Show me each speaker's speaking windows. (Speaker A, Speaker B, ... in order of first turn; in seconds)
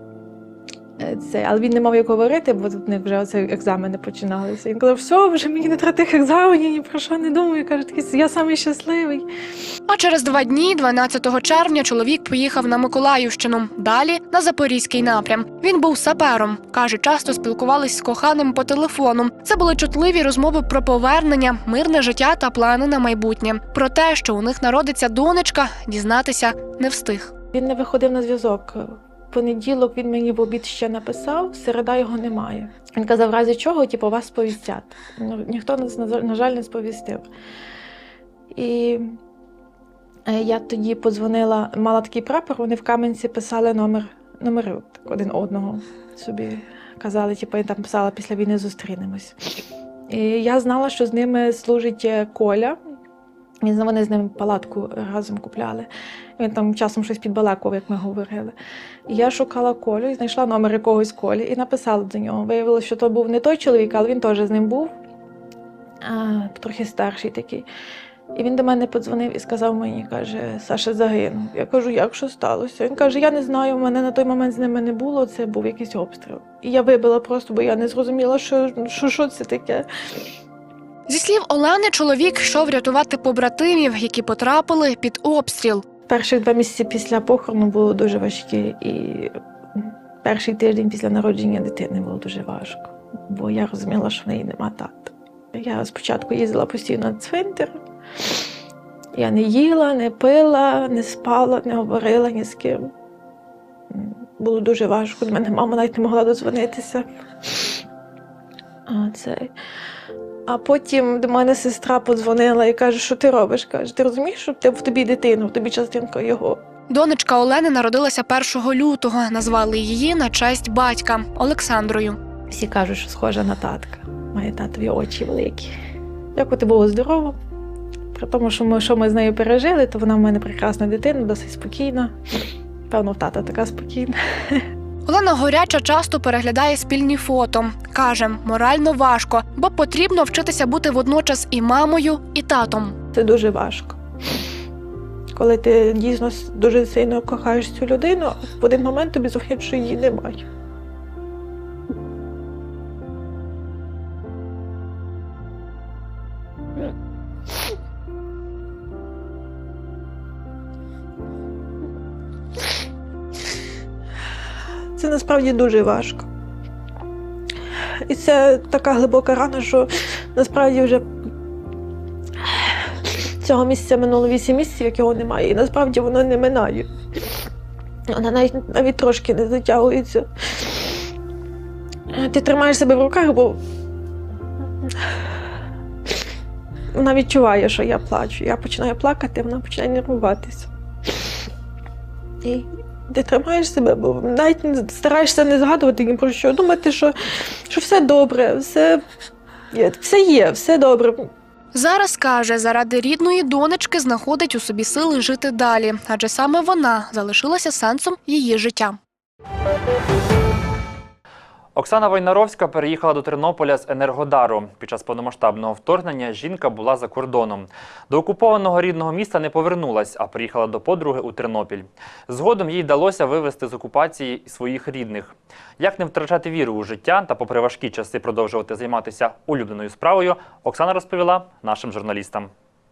Speaker A: 1.0-9.3, 27.6-37.3, 38.5-39.2, 40.3-49.4, 50.1-52.8, 53.6-58.5, 59.1-64.9, 66.0-67.7, 68.3-79.9, 86.1-97.8, 99.2-102.9, 103.9-107.7, 108.9-109.5, 110.5-116.6, 122.5-125.7, 126.3-127.4, 128.2-132.2, 132.9-134.7, 143.2-144.0, 145.3-150.4, 165.0-166.3, 168.1-171.1, 172.4-176.9, 178.1-180.7, 182.1-183.6, 186.9-190.7, 192.4-197.2, 197.7-199.0, 199.7-201.3
Speaker B: 9.9-27.3, 81.1-85.8, 116.9-122.2, 135.1-143.0, 201.7-209.0
Speaker C: 211.8-232.5